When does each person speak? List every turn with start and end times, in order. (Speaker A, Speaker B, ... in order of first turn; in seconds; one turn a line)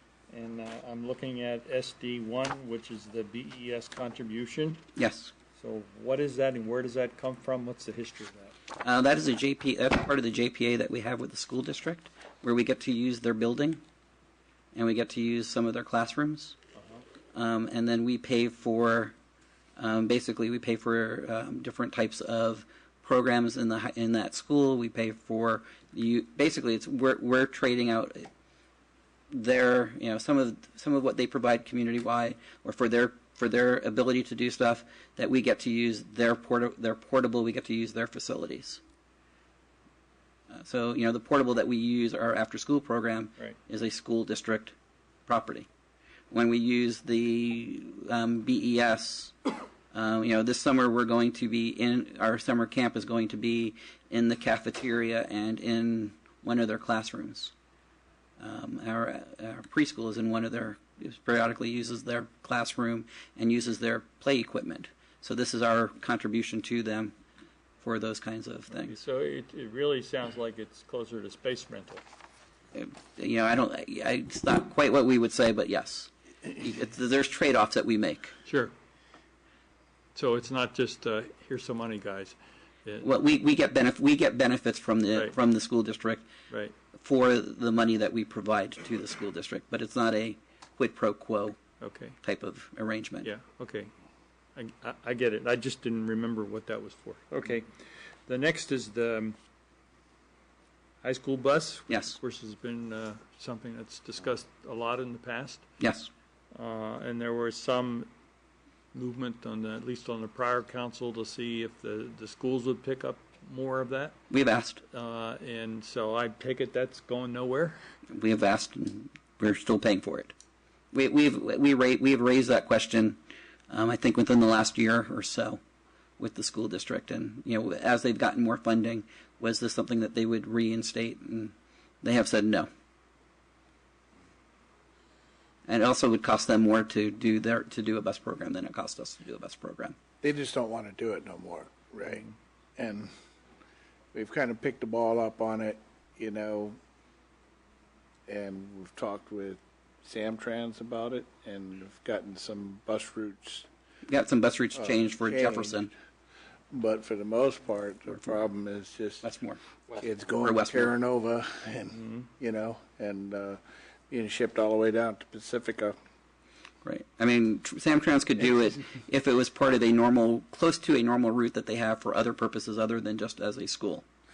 Speaker A: 0.3-4.8
Speaker B: 5.0-5.3
Speaker A: 5.5-8.5
Speaker B: 8.8-13.8
Speaker B: 14.7-16.6
Speaker A: 16.8-17.0
Speaker B: 17.3-19.1
Speaker B: 19.8-28.3
Speaker B: 29.3-38.8
Speaker B: 40.5-44.8
Speaker B: 45.3-45.7
Speaker B: 46.3-49.4
Speaker B: 49.9-57.5
Speaker B: 58.4-67.1
Speaker B: 67.8-69.0
Speaker A: 68.7-72.0
Speaker B: 72.7-78.3
Speaker A: 78.5-78.7
Speaker A: 80.1-83.1
Speaker B: 83.0-86.2
Speaker A: 86.5-86.7
Speaker B: 87.0-91.6
Speaker A: 91.8-92.2
Speaker B: 92.2-93.3
Speaker A: 93.2-93.9
Speaker A: 94.5-97.7
Speaker A: 98.2-99.4
Speaker A: 101.0-105.6
Speaker B: 101.9-102.2
Speaker B: 105.8-106.1
Speaker A: 106.5-108.1
Speaker A: 108.9-114.2
Speaker B: 114.3-114.8
Speaker A: 114.9-117.8
Speaker B: 118.1-120.3
Speaker B: 120.9-123.2
Speaker B: 123.7-125.6
Speaker B: 126.2-132.7
Speaker B: 135.7-140.0
Speaker C: 140.2-143.1
Speaker C: 144.1-146.8
Speaker C: 148.3-153.7
Speaker B: 154.1-155.9
Speaker C: 154.8-155.8
Speaker C: 156.7-159.3
Speaker B: 159.2-159.6
Speaker C: 160.0-166.0
Speaker B: 160.4-160.9
Speaker A: 162.0-162.2
Speaker B: 166.8-174.0